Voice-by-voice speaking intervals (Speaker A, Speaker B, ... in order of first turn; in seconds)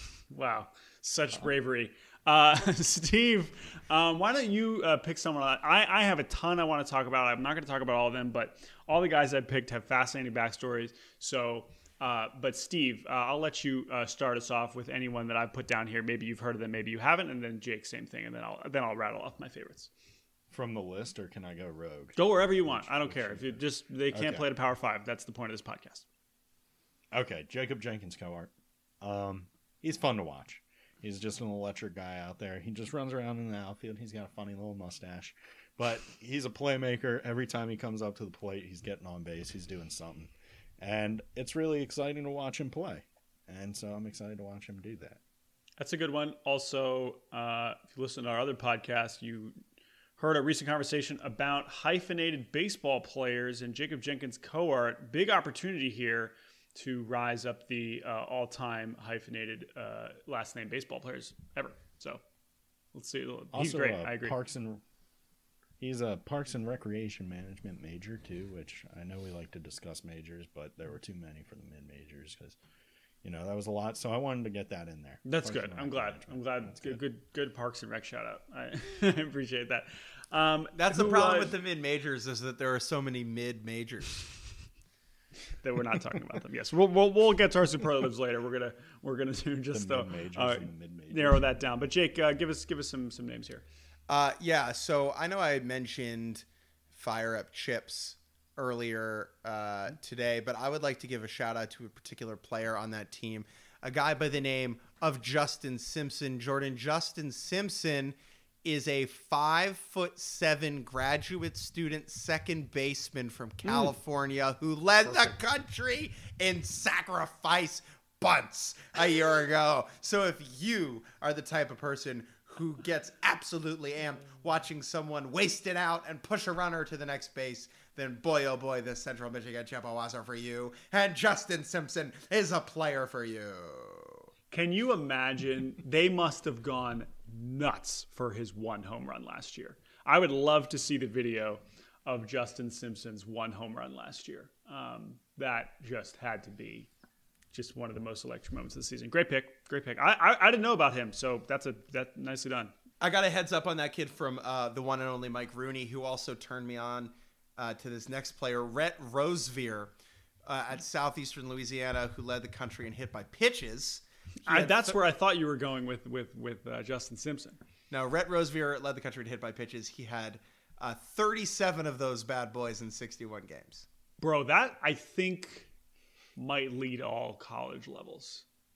Speaker A: 0.3-19.9, 22.1-26.1, 45.8-49.5, 50.2-62.2, 62.9-64.3, 75.2-81.5, 85.6-93.6, 113.6-113.9, 134.5-146.9, 147.5-152.7, 164.4-167.6, 174.2-175.7, 176.3-178.4
Speaker B: 20.5-24.5, 27.1-45.2, 63.5-64.8, 65.8-72.6, 73.2-77.0, 89.7-91.4
Speaker C: 80.7-84.3, 94.1-134.3, 153.0-159.9, 160.4-164.9, 167.9-173.8